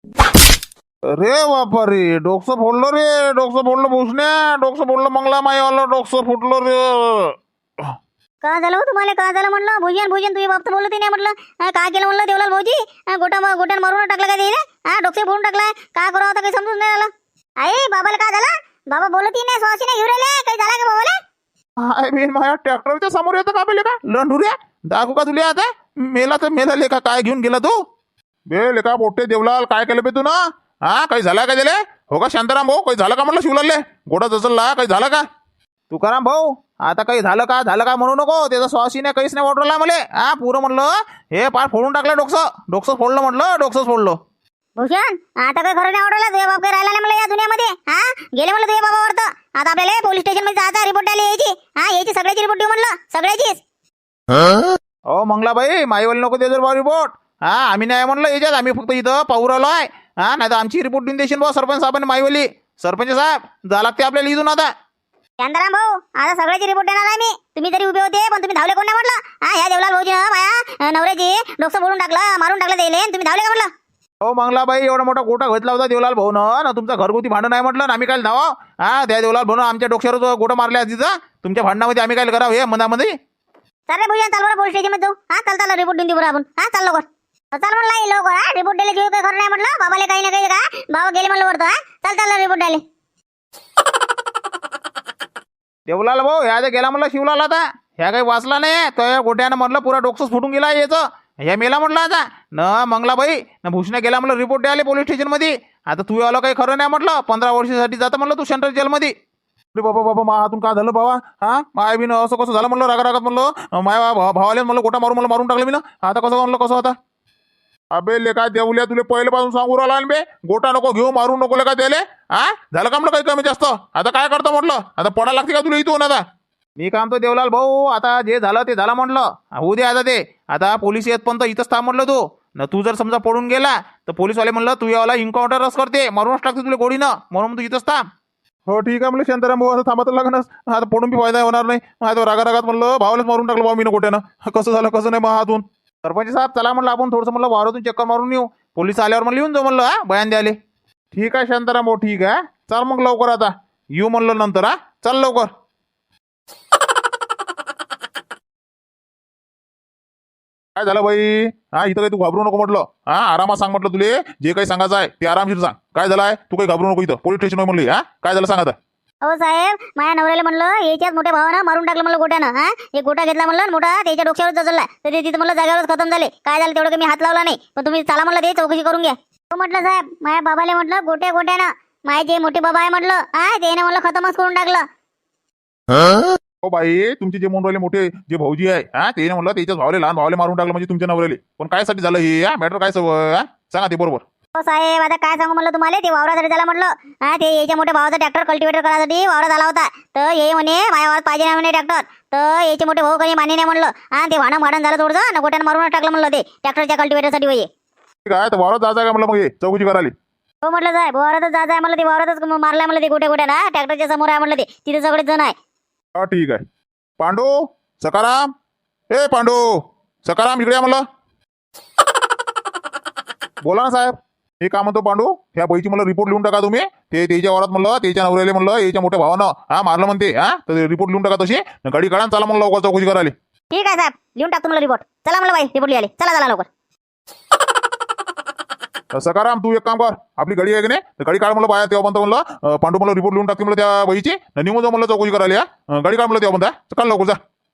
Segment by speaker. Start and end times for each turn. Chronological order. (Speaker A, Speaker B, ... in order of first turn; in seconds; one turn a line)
Speaker A: 1.1-7.3
Speaker B: 8.4-21.2
Speaker A: 21.8-27.8
Speaker A: 28.5-35.2
Speaker A: 35.9-44.2
Speaker B: 44.8-53.6
Speaker A: 55.1-64.7
Speaker B: 65.4-73.7
Speaker A: 74.2-83.1
Speaker B: 83.9-92.8
Speaker A: 95.9-109.1
Speaker A: 109.7-116.9
Speaker A: 117.9-126.2
Speaker A: 126.8-138.0
Speaker A: 138.7-150.6
Speaker A: 151.1-155.5
Speaker A: 160.8-168.8
Speaker B: 169.2-184.8
Speaker A: 186.6-194.2
Speaker B: 194.6-207.7
Speaker A: 208.2-210.1
Speaker B: 210.6-215.5
Speaker A: 216.2-216.6
Speaker A: 217.2-218.5
Speaker A: 219.1-219.7
Speaker A: 220.2-221.0
Speaker A: 223.7-233.3
Speaker B: 233.7-236.7
Speaker A: 239.1-247.4